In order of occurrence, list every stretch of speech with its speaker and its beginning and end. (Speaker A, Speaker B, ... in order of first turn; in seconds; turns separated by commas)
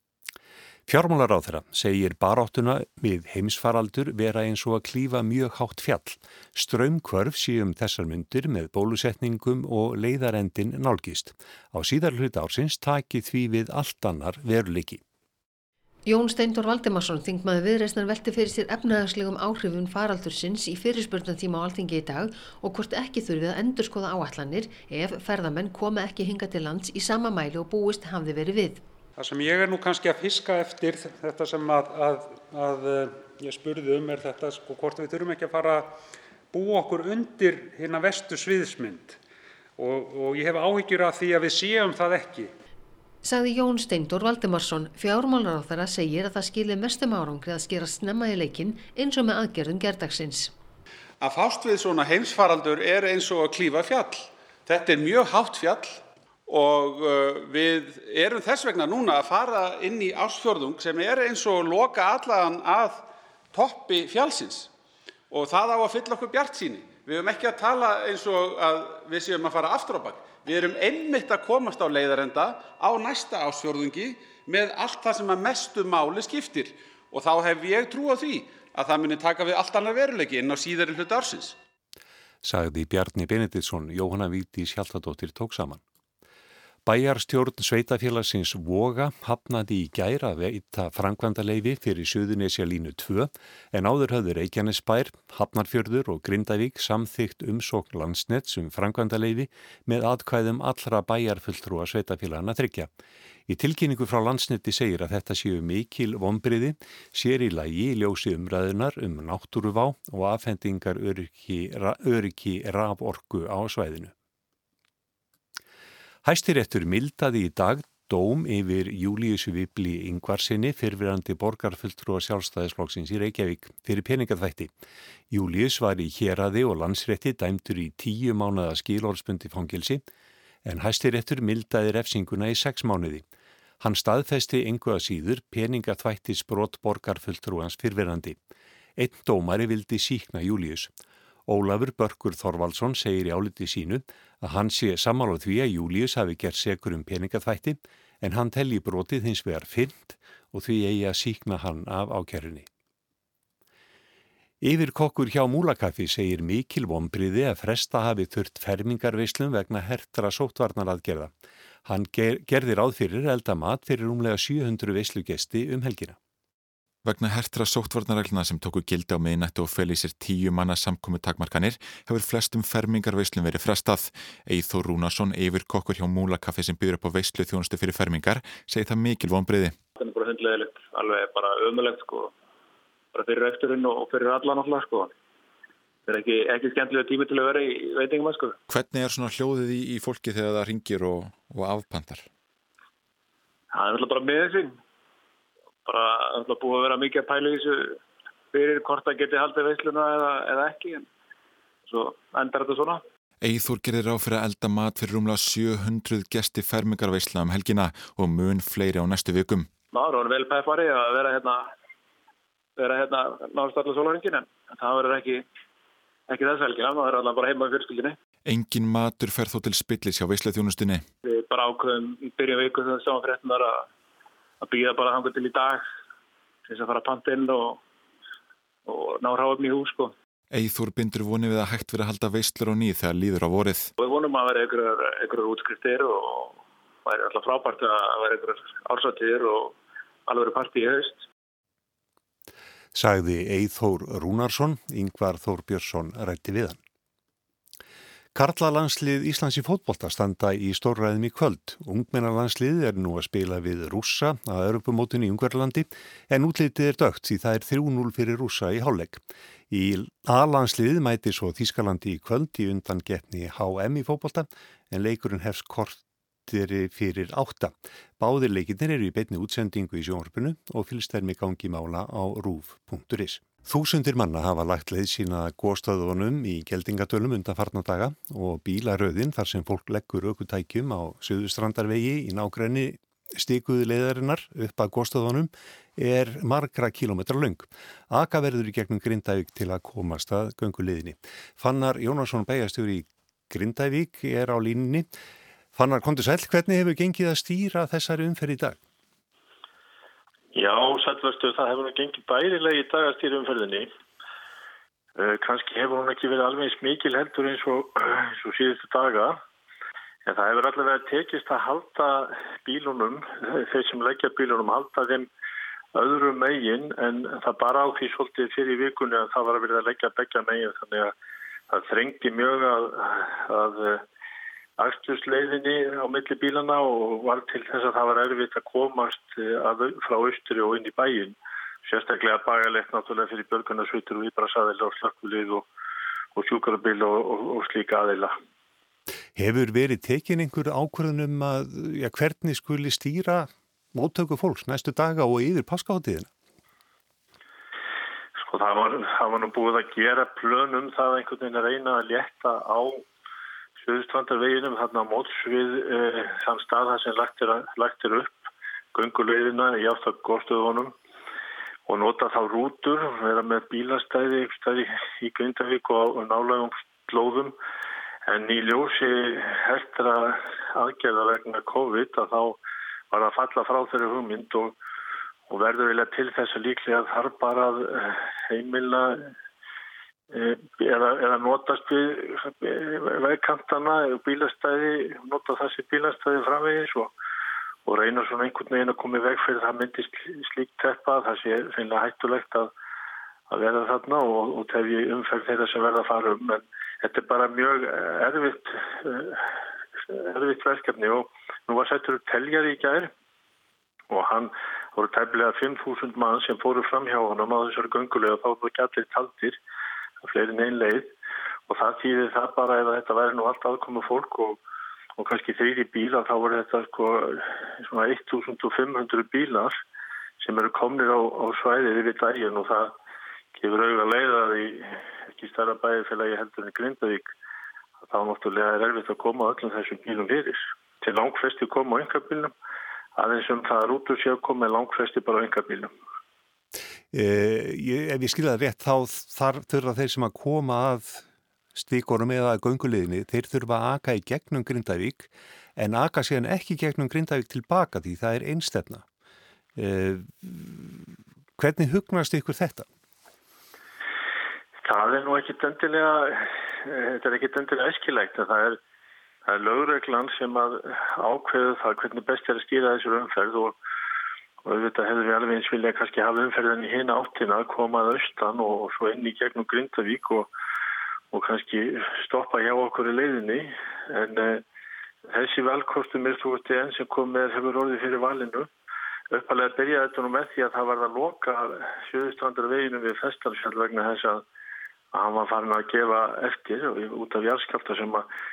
Speaker A: 0.9-15.0, Speaker B: 16.1-28.8, Speaker C: 29.2-39.2, Speaker C: 39.8-42.5, Speaker B: 43.2-50.5, Speaker D: 51.2-64.7, Speaker D: 65.3-81.6, Speaker A: 82.4-85.8, Speaker A: 86.8-102.9, Speaker A: 103.5-114.1, Speaker A: 116.2-124.7, Speaker A: 125.3-130.0, Speaker A: 130.7-133.2, Speaker A: 133.8-138.4, Speaker A: 139.0-140.9, Speaker A: 141.5-152.7, Speaker A: 154.6-161.3, Speaker A: 161.9-166.2, Speaker E: 167.0-179.8, Speaker F: 180.0-182.3, Speaker F: 183.1-185.1, Speaker F: 186.1-188.6, Speaker E: 188.7-192.3, Speaker F: 193.7-194.8, Speaker F: 195.8-198.0, Speaker F: 198.5-201.1, Speaker F: 201.9-203.0, Speaker E: 203.4-209.7, Speaker F: 209.9-211.7, Speaker F: 212.8-215.4, Speaker F: 216.3-218.2, Speaker E: 218.4-221.1, Speaker F: 221.2-223.9, Speaker F: 224.6-225.9, Speaker F: 226.7-227.8, Speaker F: 228.9-230.1, Speaker E: 230.5-233.9, Speaker F: 234.0-239.8, Speaker F: 240.3-241.2, Speaker A: 242.9-246.8, Speaker A: 248.3-295.1, Speaker A: 295.8-298.8, Speaker G: 300.5-303.9, Speaker G: 305.2-309.4, Speaker G: 310.3-315.3, Speaker G: 315.9-321.1, Speaker G: 321.7-324.0, Speaker G: 324.8-335.7, Speaker G: 336.4-338.3, Speaker A: 339.4-346.3, Speaker G: 348.4-353.1, Speaker G: 353.8-358.4, Speaker G: 358.9-360.9, Speaker G: 361.9-367.6, Speaker G: 368.3-372.6, Speaker G: 373.1-374.8, Speaker G: 375.5-379.3, Speaker G: 380.3-387.1, Speaker G: 387.9-392.7, Speaker G: 393.5-399.5, Speaker G: 400.0-403.1, Speaker G: 404.1-409.6, Speaker G: 410.2-411.1, Speaker G: 411.7-414.6, Speaker G: 415.2-419.8, Speaker G: 420.4-422.9, Speaker G: 423.6-427.3, Speaker G: 428.0-432.5, Speaker G: 433.2-435.9, Speaker A: 437.1-449.1, Speaker A: 449.8-452.9, Speaker G: 454.8-458.8, Speaker G: 459.5-463.8, Speaker G: 464.6-470.5, Speaker G: 471.3-474.6, Speaker G: 475.3-478.7, Speaker G: 479.3-484.4, Speaker G: 485.1-488.3